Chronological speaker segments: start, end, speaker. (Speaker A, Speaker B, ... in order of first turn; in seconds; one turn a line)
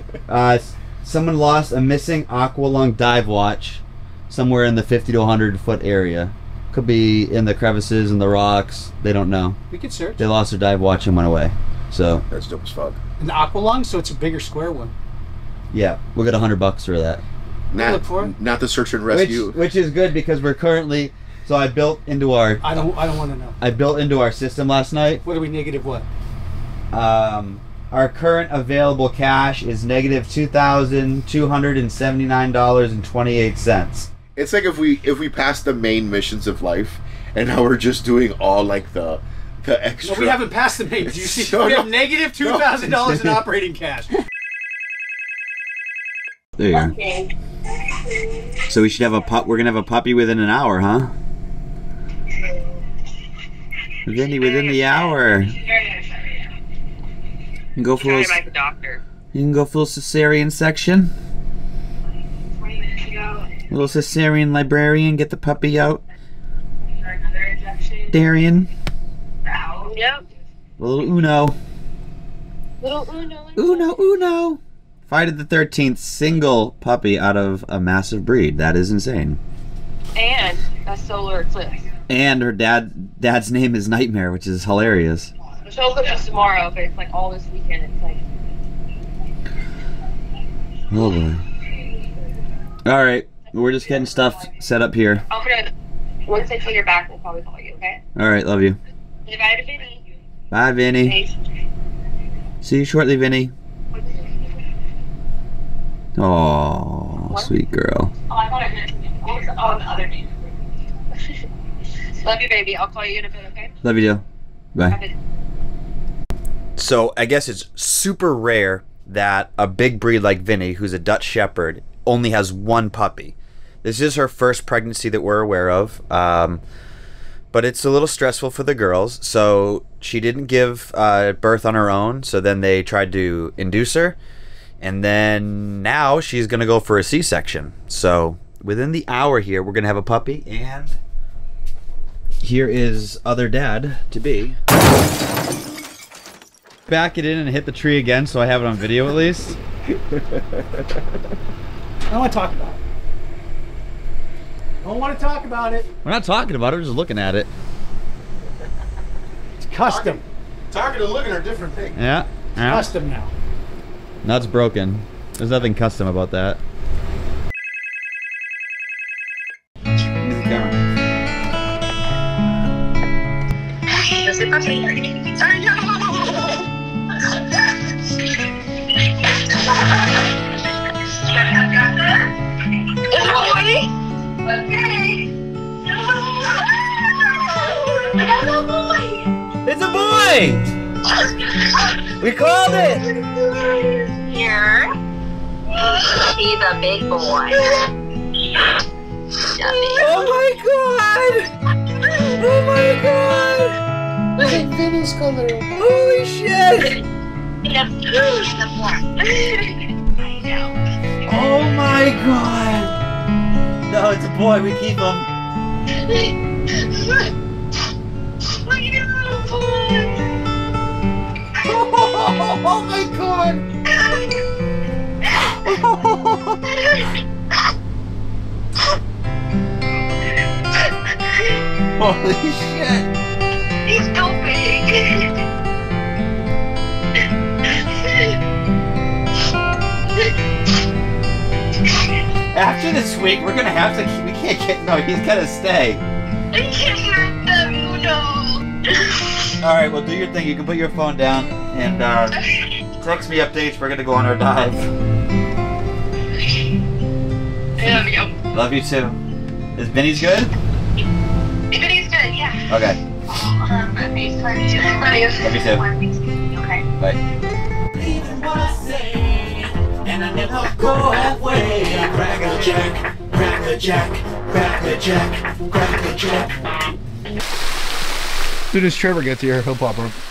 Speaker A: 0.3-9.6
Speaker B: 9.7-10.3
Speaker A: 10.2-12.2
Speaker C: 12.3-13.0
Speaker B: 13.2-14.9
Speaker A: 15.7-17.2
Speaker C: 17.7-19.6
Speaker B: 17.7-18.3
Speaker A: 19.1-22.9
Speaker B: 22.6-23.6
Speaker A: 23.6-25.2
Speaker B: 25.2-26.1
Speaker A: 26.9-34.1
Speaker C: 34.4-40.5
Speaker B: 40.0-44.1
Speaker C: 41.0-42.9
Speaker A: 46.6-47.0
Speaker D: 46.7-47.3
Speaker D: 48.2-48.5
Speaker A: 48.7-51.1
Speaker A: 54.1-55.6
Speaker D: 54.1-56.5
Speaker A: 57.8-58.4
Speaker D: 58.0-59.0
Speaker A: 59.3-61.1
Speaker D: 62.6-63.5
Speaker A: 63.7-66.0
Speaker D: 67.1-68.1
Speaker A: 68.1-68.7
Speaker D: 69.5-70.2
Speaker A: 70.8-71.6
Speaker D: 72.8-74.0
Speaker A: 73.6-79.4
Speaker D: 80.2-81.9
Speaker A: 82.1-85.3
Speaker D: 85.7-88.2
Speaker A: 90.9-91.4
Speaker A: 92.9-95.2
Speaker D: 95.3-95.7
Speaker D: 96.3-98.0
Speaker A: 98.2-98.8
Speaker D: 99.3-100.0
Speaker A: 100.5-101.2
Speaker D: 101.0-101.3
Speaker A: 102.6-103.5
Speaker D: 104.0-104.3
Speaker A: 106.2-108.1
Speaker D: 108.3-110.5
Speaker D: 112.2-113.7
Speaker A: 113.8-115.0
Speaker D: 114.9-115.2
Speaker A: 116.8-126.6
Speaker A: 127.5-134.2
Speaker A: 134.8-141.0
Speaker A: 142.4-144.6
Speaker A: 146.9-149.6
Speaker B: 152.1-152.8
Speaker B: 154.8-155.9
Speaker A: 156.0-157.5
Speaker B: 159.6-160.2
Speaker C: 159.8-160.2
Speaker C: 160.7-161.9
Speaker A: 161.9-162.9
Speaker B: 162.7-163.3
Speaker A: 164.2-166.6
Speaker A: 170.2-170.8
Speaker D: 173.9-176.6
Speaker D: 181.0-182.3
Speaker D: 183.0-183.9
Speaker D: 184.4-185.3
Speaker D: 186.0-189.2
Speaker A: 189.7-190.7
Speaker A: 192.2-193.1
Speaker D: 193.5-194.9
Speaker D: 195.8-197.6
Speaker D: 199.5-200.3
Speaker A: 199.6-201.5
Speaker A: 202.2-203.8
Speaker A: 204.4-207.0
Speaker D: 207.7-210.7
Speaker A: 208.1-208.5
Speaker A: 211.2-212.9
Speaker A: 213.9-215.3
Speaker D: 216.0-217.3
Speaker D: 218.5-220.3
Speaker A: 221.6-223.7
Speaker D: 223.9-224.3
Speaker A: 225.4-226.6
Speaker A: 232.0-233.1
Speaker D: 233.9-235.3
Speaker D: 237.8-238.3
Speaker A: 242.5-246.0
Speaker D: 246.5-249.5
Speaker A: 249.6-252.4
Speaker A: 253.0-254.9
Speaker D: 257.8-258.4
Speaker A: 258.5-259.2
Speaker A: 259.8-260.5
Speaker D: 261.7-262.7
Speaker A: 262.7-263.0
Speaker D: 263.3-266.8
Speaker A: 265.4-265.9
Speaker A: 267.9-276.6
Speaker C: 278.7-280.1